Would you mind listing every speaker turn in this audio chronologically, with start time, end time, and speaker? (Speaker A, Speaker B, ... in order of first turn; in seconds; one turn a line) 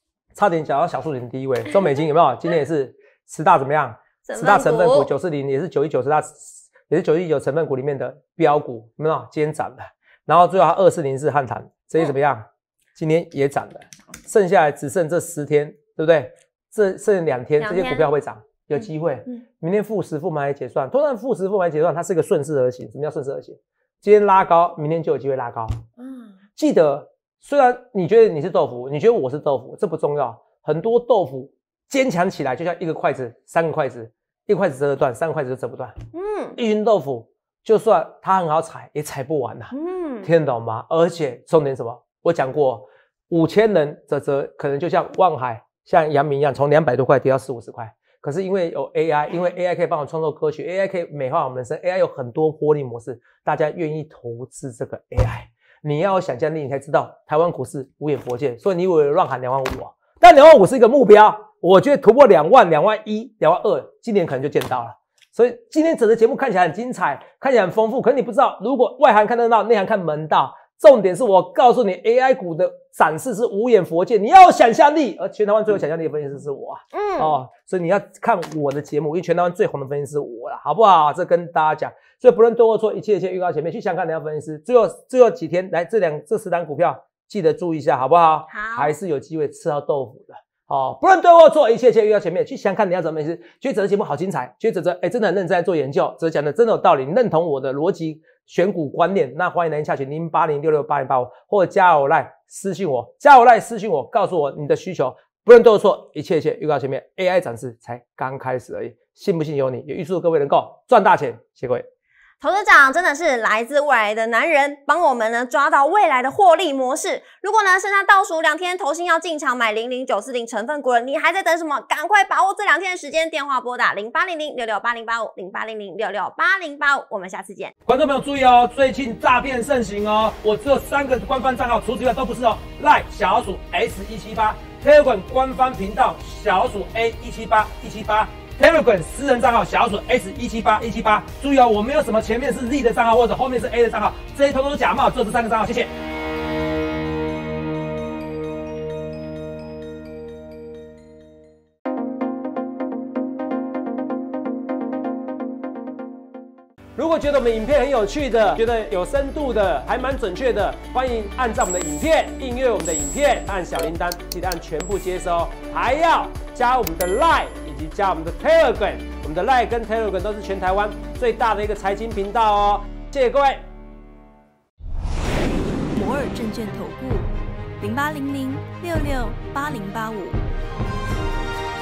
Speaker A: 0.3-25.8
Speaker B: 4.2-5.1
Speaker B: 17.6-18.1
Speaker B: 18.8-19.4
Speaker B: 26.0-26.4
Speaker A: 26.6-36.0
Speaker B: 36.1-36.6
Speaker A: 36.5-39.7
Speaker B: 39.7-40.3
Speaker A: 40.2-111.8
Speaker B: 76.9-77.4
Speaker B: 88.5-88.9
Speaker B: 112.4-127.7
Speaker A: 127.8-145.9
Speaker A: 156.9-173.6
Speaker C: 175.9-177.3
Speaker C: 177.8-180.4